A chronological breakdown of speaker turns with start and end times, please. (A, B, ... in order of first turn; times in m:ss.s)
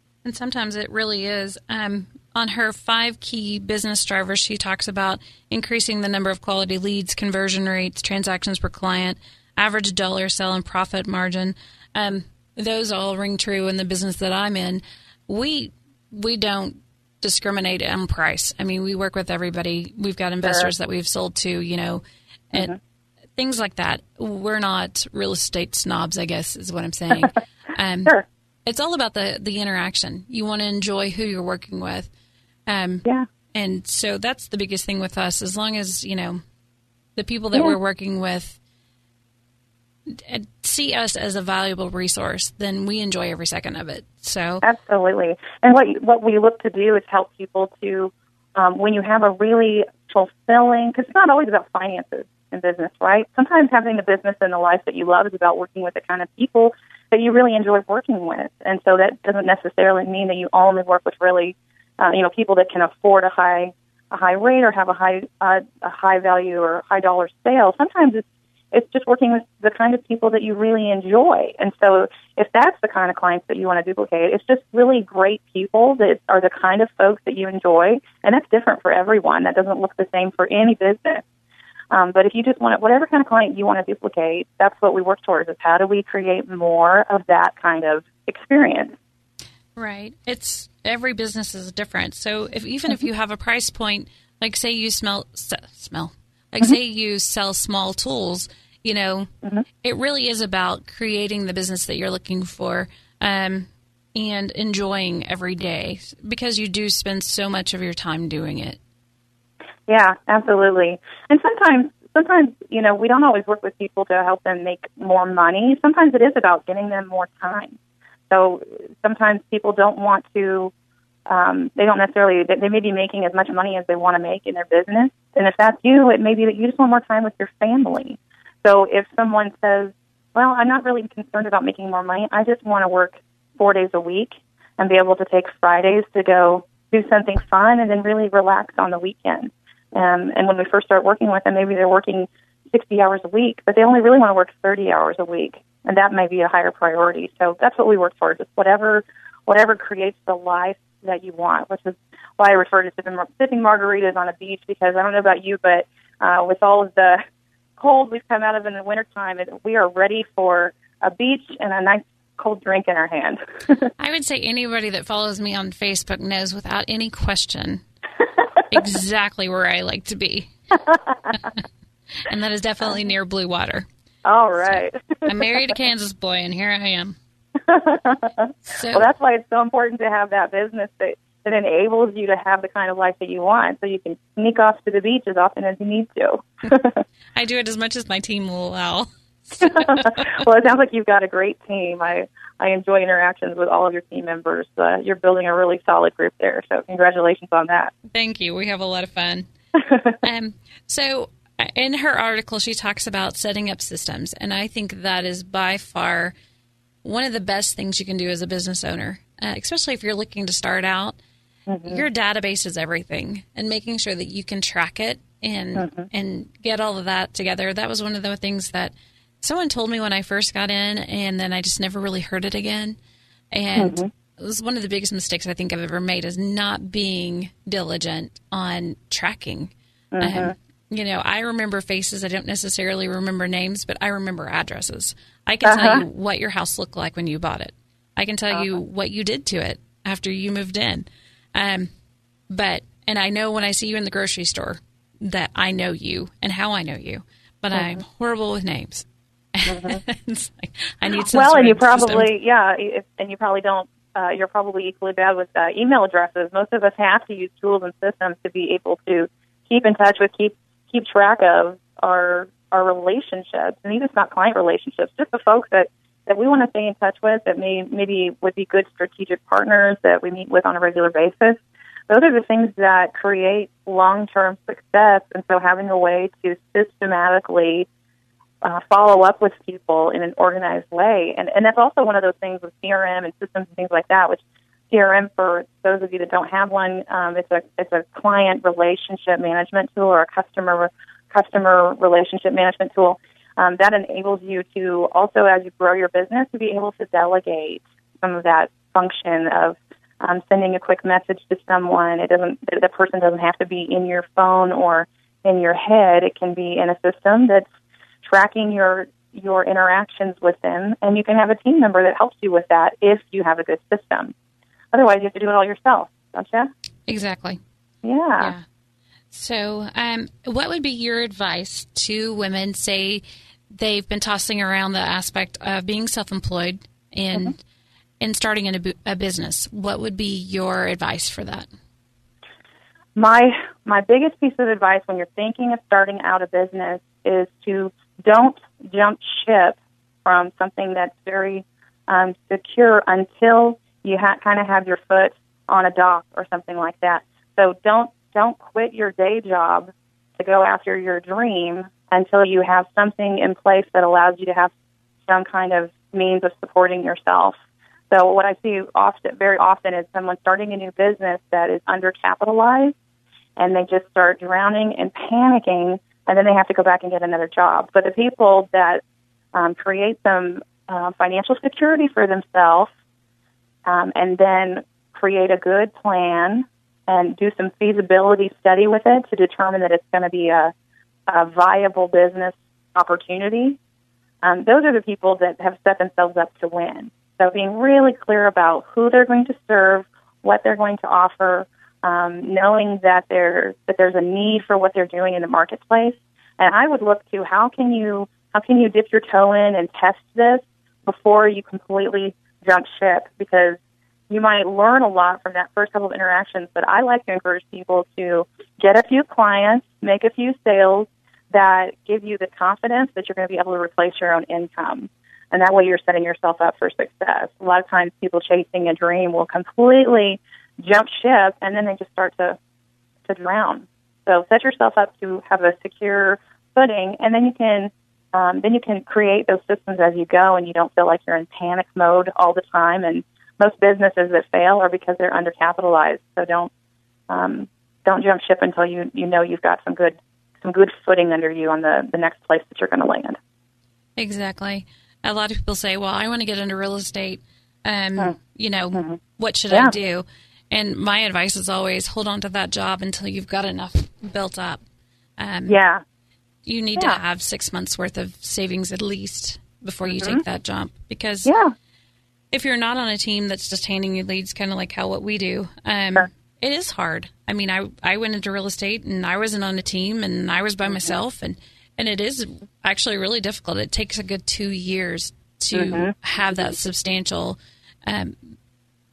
0:00.2-0:22.7 A
0:20.4-0:20.7 B
0:23.4-0:28.1 A
0:28.6-0:32.1 A
0:32.7-0:36.4 A
0:37.2-0:38.6 A
0:40.1-0:44.6 A
0:44.6-1:21.2 B
1:21.9-1:29.0 B
1:29.7-1:39.3 A
1:39.8-1:48.8 A
1:49.9-1:57.8 B
1:58.3-2:00.7 B
2:01.3-2:37.2 B
2:37.8-2:43.9 B
2:44.0-2:47.8 A
2:48.7-2:50.5 A
2:51.3-2:51.6 A
2:52.2-2:53.9 A
2:54.2-2:55.3 B
2:54.6-2:57.2 A
2:57.7-3:07.0 B
2:58.6-2:59.1 A
3:07.3-3:10.3 A
3:09.6-3:17.9 B
3:18.1-3:19.5 A
3:20.2-3:26.3 A
3:27.0-3:31.2 A
3:31.7-3:32.0 B
3:31.8-3:43.0 A
3:35.8-3:36.1 B
3:43.5-4:01.9 A
3:43.8-3:44.1 B
3:50.1-3:50.5 B
3:55.6-3:56.0 B
4:02.5-4:12.3 A
4:07.7-4:08.0 B
4:09.7-4:10.0 B
4:11.3-4:37.9 B
4:38.6-5:07.6 B
5:08.2-5:14.3 B
5:14.9-5:16.7 B
5:17.1-5:17.6 A
5:18.0-5:18.5 B
5:18.4-5:18.6 A
5:19.3-5:27.5 A
5:28.2-5:31.7 A
5:33.1-5:54.7 B
5:55.3-5:57.6 B
5:58.1-6:02.9 B
6:03.6-6:09.0 B
6:09.5-6:12.9 B
6:13.8-6:20.7 B
6:21.3-6:23.8 B
6:24.4-6:43.8 B
6:44.3-7:02.6 B
7:03.3-7:16.7 B
7:17.3-7:23.4 B
7:24.2-7:34.8 A
7:28.9-7:29.2 B
7:35.4-7:35.8 A
7:35.7-7:36.0 B
7:36.6-7:41.5 A
7:40.1-7:40.4 B
7:41.4-7:41.7 B
7:42.5-7:58.5 A
7:50.8-7:51.1 B
7:55.7-7:56.6 B